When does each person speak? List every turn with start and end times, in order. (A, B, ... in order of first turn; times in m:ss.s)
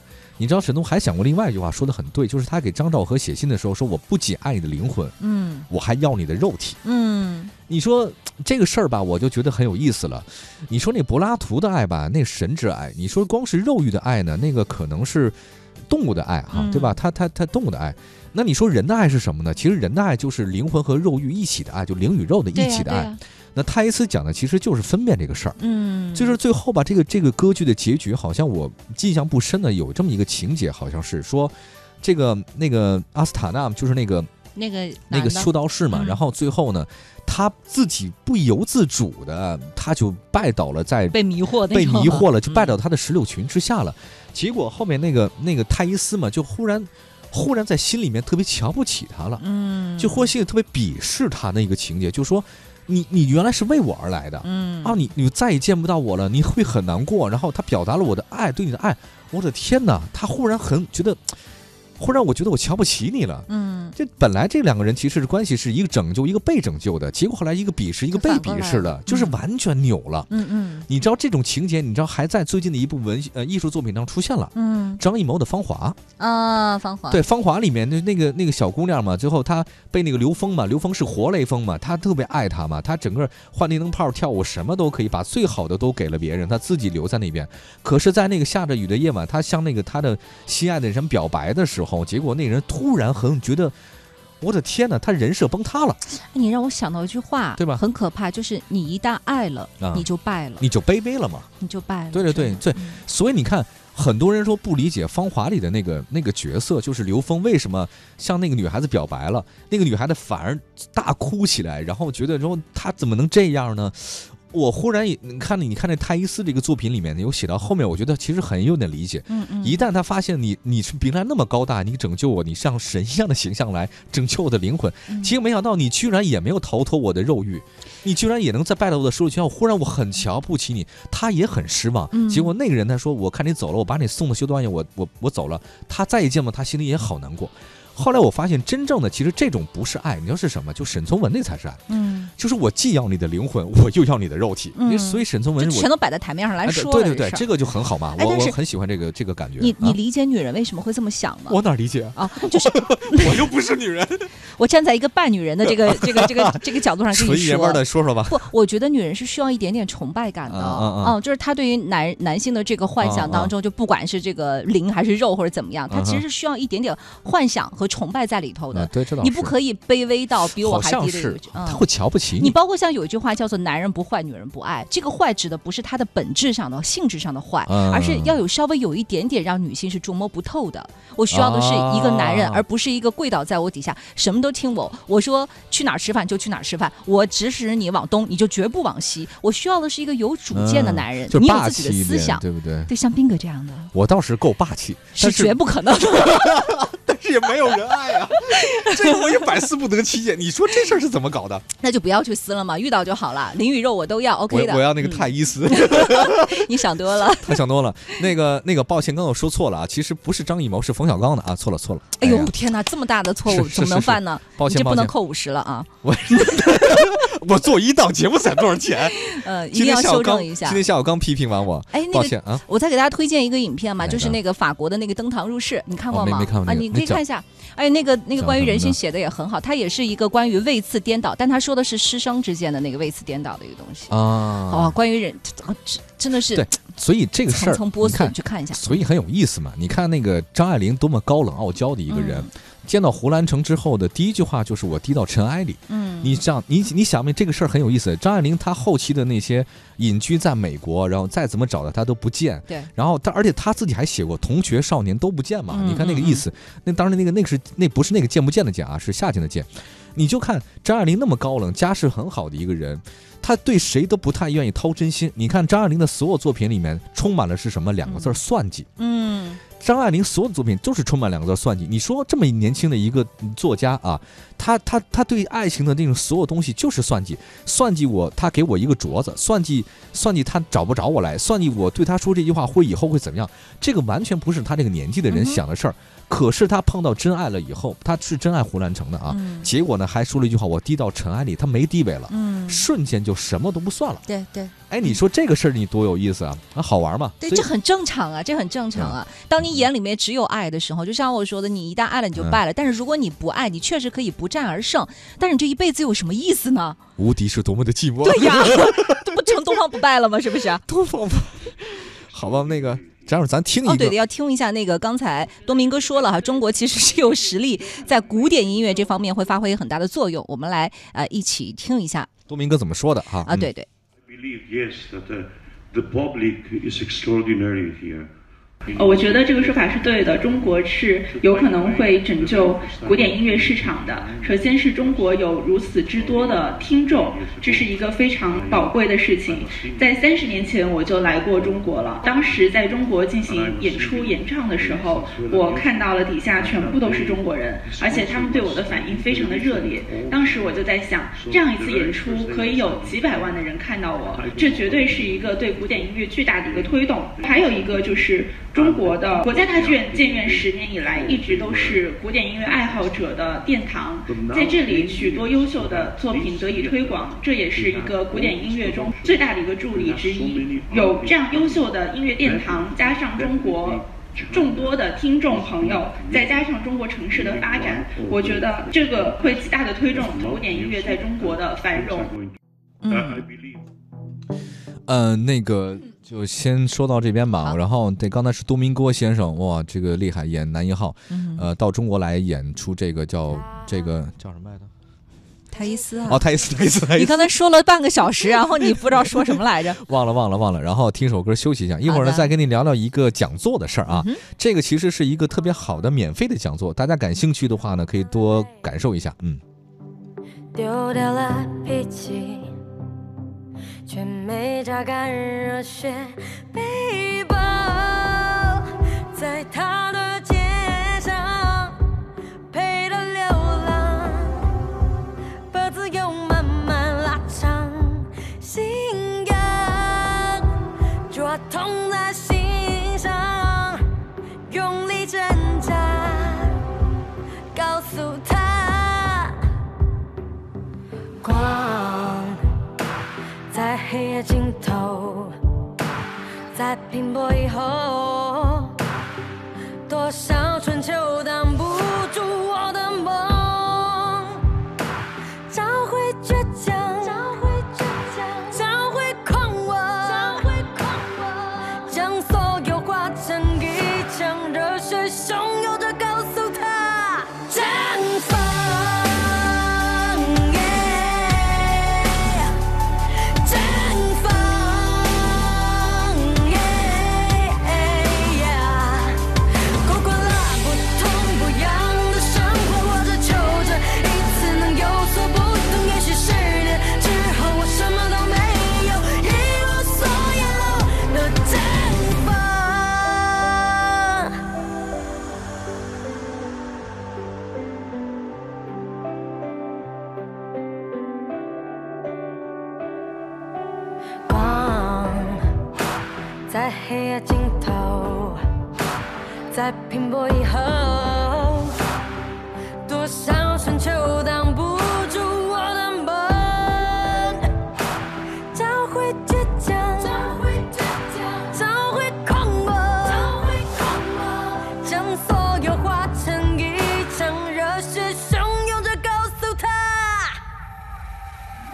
0:00.4-0:05.2 A
0:05.2-0:05.7 B
0:05.7-0:06.8 A
0:06.8-0:07.5 B
0:07.7-0:15.4 A
0:15.9-0:25.6 A
0:16.5-0:17.0 B
0:22.5-0:23.2 B
0:25.6-0:26.4 B
0:26.1-0:34.3 A
0:34.6-0:36.2 B
0:35.1-0:49.4 A
0:41.1-0:42.7 B
0:49.4-0:50.3 B
0:50.0-1:01.3 A
0:54.4-0:55.0 B
1:02.0-1:10.3 A
1:03.5-1:03.9 B
1:08.1-1:09.4 B
1:10.3-1:10.9 B
1:10.9-1:16.0 A
1:14.5-1:15.0 B
1:16.2-1:17.2 B
1:17.1-1:33.8 A
1:34.4-1:36.0 A
1:36.1-1:40.6 B
1:37.6-1:37.8 A
1:39.8-1:40.0 A
1:40.6-1:41.5 A
1:41.6-1:43.0 B
1:42.1-2:21.8 A
1:59.3-1:59.9 B
2:05.1-2:05.3 B
2:12.1-2:12.5 B
2:21.9-2:22.3 B
2:22.4-2:25.9 A
2:24.7-2:27.4 B
2:26.6-2:30.0 A
2:28.2-2:28.6 B
2:29.6-2:31.6 B
2:31.5-2:34.3 A
2:32.2-2:33.4 B
2:34.6-2:51.8 B
2:35.6-2:36.6 A
2:37.1-2:38.5 A
2:40.5-2:41.2 A
2:43.0-2:43.5 A
2:45.9-2:46.2 A
2:48.7-2:49.5 A
2:50.5-2:52.5 A
2:52.4-3:13.9 B
2:57.6-2:58.4 A
3:01.3-3:02.6 A
3:10.5-3:12.9 A
3:13.9-3:21.6 A
3:15.2-3:16.7 B
3:18.5-3:19.4 B
3:21.8-3:27.6 B
3:24.5-3:32.5 A
3:32.2-3:37.1 B
3:33.5-3:35.1 A
3:36.0-3:42.6 A
3:39.2-3:40.8 B
3:41.9-3:56.7 B
3:44.0-3:44.4 A
3:46.1-3:47.2 A
3:48.4-3:49.0 A
3:54.1-3:55.0 A
3:56.5-4:28.9 A
3:57.5-3:59.0 B
4:02.1-4:02.5 B
4:05.9-4:06.4 B
4:15.7-4:16.4 B
4:28.0-4:28.4 B
4:29.0-4:29.6 B
4:29.8-4:54.2 A
4:45.3-4:45.6 B
4:49.3-4:49.7 B
4:52.3-4:52.8 B
4:54.3-4:55.2 B
4:54.9-4:57.7 A
4:57.4-5:07.0 B
4:58.9-4:59.8 A
5:07.2-5:09.5 A
5:08.2-5:10.8 B
5:10.8-5:14.2 A
5:12.3-5:13.3 C
5:13.8-5:22.3 B
5:22.5-5:23.7 A
5:23.4-5:23.9 B
5:24.2-5:28.3 C
5:28.8-5:35.5 C
5:28.9-6:22.3 D
5:36.1-5:42.8 C
5:43.4-5:53.6 C
5:54.2-6:02.1 C
6:02.6-6:03.7 C
6:04.2-6:16.7 C
6:17.3-6:22.6 C
6:23.0-6:23.4 B
6:23.1-6:23.8 C
6:25.1-6:34.9 A
6:31.3-6:31.7 B
6:35.7-6:36.4 B
6:36.2-6:37.6 A
6:37.1-6:40.0 B
6:38.4-6:49.6 A
6:42.0-6:42.5 B
6:44.1-6:44.4 B
6:50.7-6:52.7 E
6:54.0-7:02.0 E
7:02.7-7:04.7 E
7:05.7-7:10.7 E
7:11.3-7:14.0 E
7:14.7-7:16.8 E
7:17.7-7:19.6 E
7:21.4-7:22.7 E
7:23.7-7:25.5 E
7:26.7-7:29.0 E
7:30.1-7:34.7 E
7:35.7-8:14.5 E
8:24.5-8:25.6 E
8:26.7-8:28.6 E
8:29.7-8:32.0 E
8:33.0-8:37.7 E
8:38.7-8:50.6 E